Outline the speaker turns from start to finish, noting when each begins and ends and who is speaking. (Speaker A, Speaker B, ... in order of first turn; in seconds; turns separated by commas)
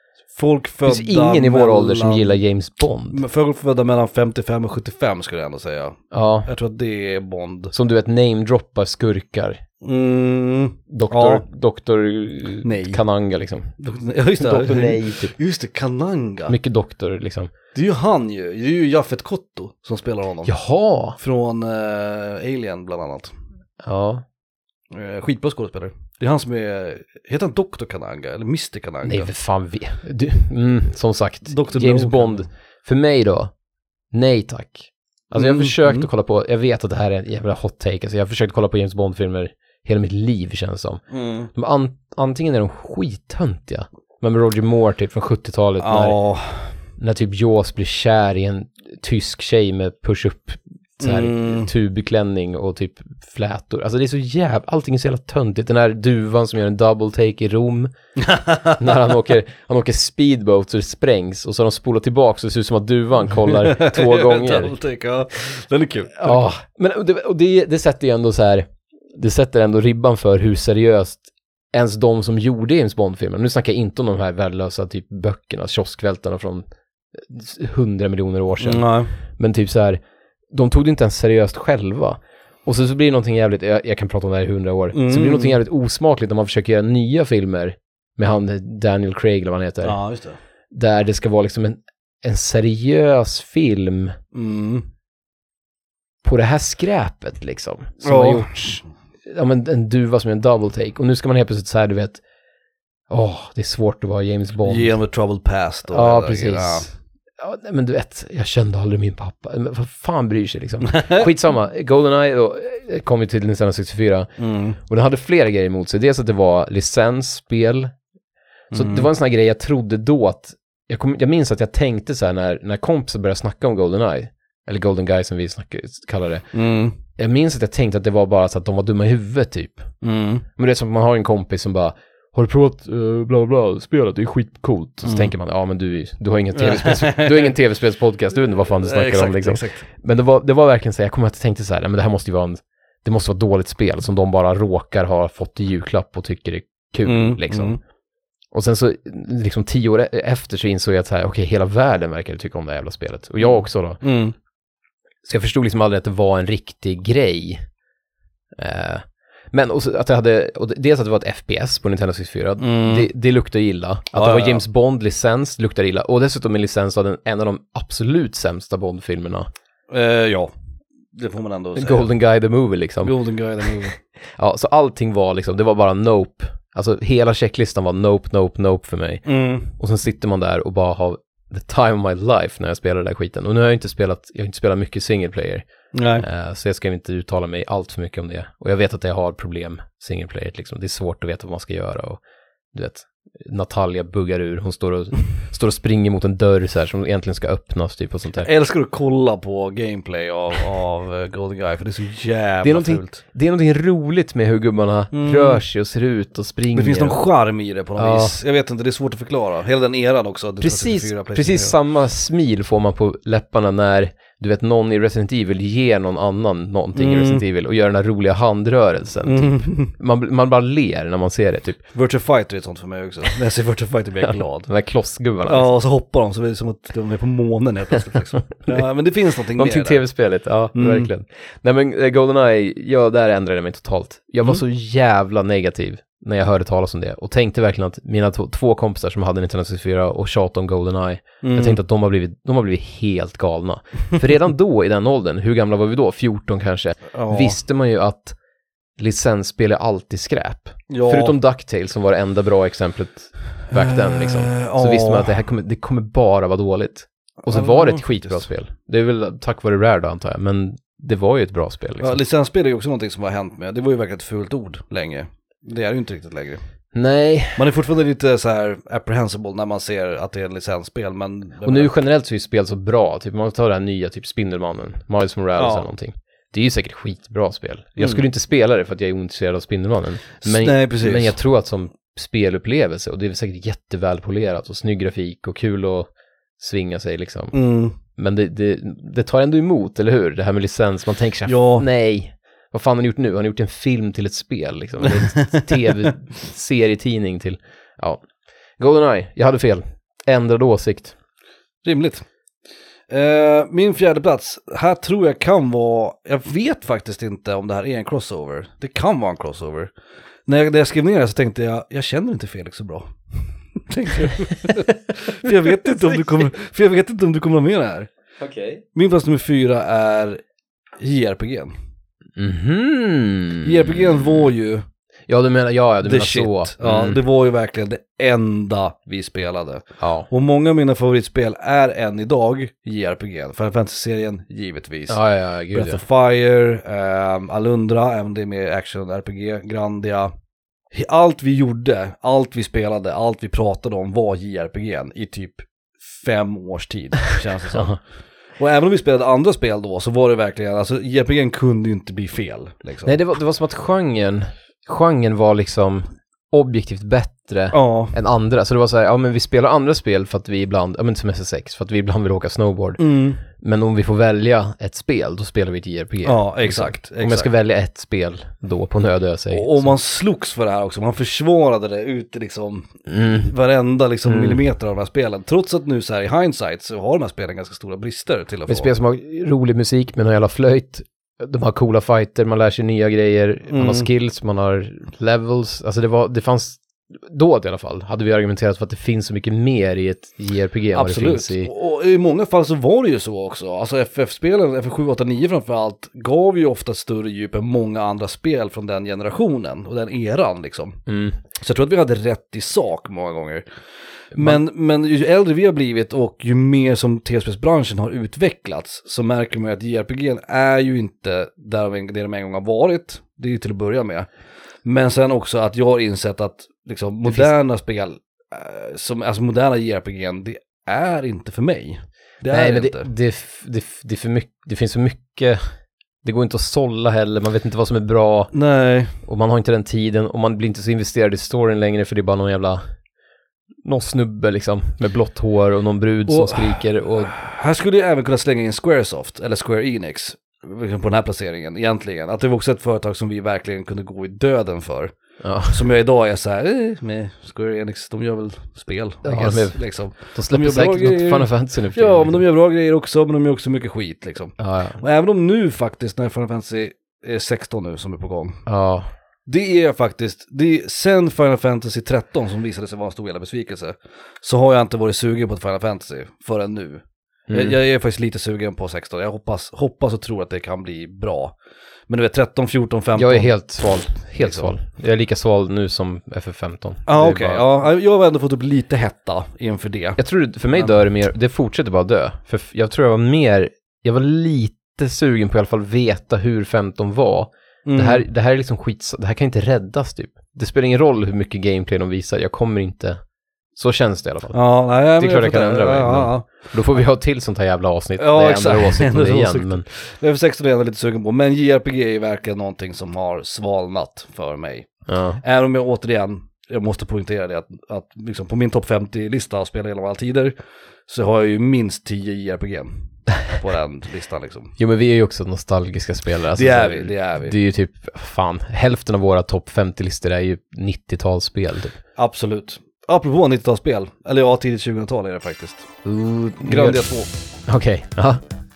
Speaker A: 0.3-2.4, Speaker B: 0.8-3.2, Speaker A: 3.1-7.7, Speaker B: 6.1-6.5, Speaker B: 7.7-9.6, Speaker A: 9.8-11.4, Speaker B: 10.9-13.7, Speaker A: 12.6-13.0, Speaker A: 13.8-16.6, Speaker B: 14.4-15.3, Speaker B: 16.5-17.5, Speaker A: 17.7-20.5, Speaker B: 20.4-21.2, Speaker A: 21.2-23.3, Speaker B: 23.8-24.2, Speaker A: 24.9-29.3, Speaker B: 29.0-33.5, Speaker A: 31.4-32.5, Speaker B: 34.1-41.0, Speaker A: 35.3-36.1, Speaker A: 41.1-41.5, Speaker B: 41.5-46.2, Speaker A: 45.8-46.7, Speaker B: 47.0-57.9, Speaker A: 51.0-51.7, Speaker A: 58.2-59.0, Speaker B: 58.8-64.8, Speaker A: 63.5-66.5, Speaker B: 66.1-90.0, Speaker A: 78.6-79.2, Speaker A: 84.9-85.6, Speaker A: 89.8-90.4, Speaker B: 90.7-94.2, Speaker A: 94.3-94.9, Speaker B: 96.2-102.2, Speaker A: 98.0-98.8, Speaker B: 103.1-104.9, Speaker A: 104.6-106.9, Speaker B: 105.9-117.9, Speaker A: 110.8-111.2, Speaker A: 114.4-114.8, Speaker A: 118.7-119.1, Speaker B: 118.7-126.5, Speaker A: 126.5-127.0, Speaker B: 127.1-129.9, Speaker A: 130.0-130.4, Speaker B: 130.6-147.8, Speaker A: 135.0-135.3, Speaker A: 136.5-137.5, Speaker A: 138.8-139.9, Speaker A: 147.0-147.8, Speaker B: 148.5-154.0, Speaker A: 153.5-154.3, Speaker B: 155.2-157.7, Speaker B: 158.6-169.5, Speaker A: 162.6-163.1, Speaker A: 164.1-164.6, Speaker A: 169.9-170.5, Speaker A: 171.1-172.1, Speaker B: 171.8-173.2, Speaker A: 173.0-174.0, Speaker B: 174.3-185.7, Speaker A: 179.2-179.7, Speaker A: 185.9-186.2, Speaker B: 186.2-192.2, Speaker B: 192.7-198.5, Speaker A: 198.4-203.2, Speaker B: 202.6-207.2, Speaker A: 205.1-205.6, Speaker A: 206.7-211.7, Speaker B: 208.0-208.4, Speaker B: 210.6-221.8, Speaker A: 216.9-217.4, Speaker A: 219.2-219.9, Speaker A: 221.9-224.7, Speaker B: 224.7-225.7, Speaker A: 225.4-230.0, Speaker B: 229.5-248.3, Speaker A: 230.7-231.1, Speaker A: 241.4-241.8, Speaker A: 247.1-247.6, Speaker B: 249.0-262.2, Speaker A: 250.9-251.3, Speaker A: 253.7-255.4, Speaker A: 257.4-258.4, Speaker A: 262.0-266.6, Speaker B: 266.9-267.6, Speaker A: 267.6-271.9, Speaker B: 271.6-298.2, Speaker A: 275.5-275.9, Speaker A: 278.0-278.2, Speaker A: 280.4-281.3, Speaker A: 287.5-288.0, Speaker A: 291.4-291.9, Speaker A: 295.0-296.1, Speaker B: 298.8-301.1, Speaker A: 301.8-302.2, Speaker A: 303.1-309.9, Speaker A: 310.5-313.1, Speaker A: 313.8-318.1, Speaker B: 318.4-318.8, Speaker A: 318.9-320.4, Speaker A: 321.0-321.7, Speaker B: 322.4-324.4, Speaker A: 323.6-324.8, Speaker B: 325.3-327.2, Speaker A: 326.0-335.2, Speaker B: 330.0-330.3, Speaker B: 335.1-336.0, Speaker A: 335.7-340.3, Speaker A: 340.9-348.0, Speaker A: 348.6-353.2, Speaker B: 353.0-369.9, Speaker A: 357.7-358.1, Speaker A: 363.0-363.4, Speaker A: 366.2-367.5, Speaker A: 369.5-378.9, Speaker B: 373.1-373.5, Speaker B: 374.3-374.6, Speaker B: 378.7-391.7, Speaker A: 383.7-384.1, Speaker A: 390.9-401.0, Speaker B: 401.1-401.4, Speaker A: 401.6-403.6, Speaker A: 404.3-414.3, Speaker B: 404.3-404.6, Speaker A: 414.8-423.1, Speaker B: 417.2-417.5, Speaker B: 422.5-425.6, Speaker B: 426.2-428.5, Speaker A: 428.5-429.2, Speaker B: 429.2-432.8, Speaker B: 433.8-437.3, Speaker A: 436.3-445.1, Speaker B: 445.4-445.8, Speaker A: 445.6-458.6, Speaker B: 449.2-452.4, Speaker B: 454.6-455.0, Speaker B: 458.6-459.1, Speaker A: 459.5-471.5, Speaker B: 467.5-467.8, Speaker A: 472.1-473.5, Speaker B: 473.1-477.7, Speaker A: 474.4-474.7, Speaker A: 477.1-480.2, Speaker B: 480.2-493.2, Speaker A: 487.9-488.2, Speaker B: 493.8-494.6, Speaker A: 494.5-496.5, Speaker B: 495.1-499.9, Speaker A: 498.2-510.5, Speaker B: 505.1-505.4, Speaker A: 511.1-514.7, Speaker B: 514.8-522.0, Speaker A: 516.5-517.5, Speaker A: 522.2-525.9, Speaker B: 526.0-527.0, Speaker A: 526.6-527.3, Speaker B: 527.7-528.4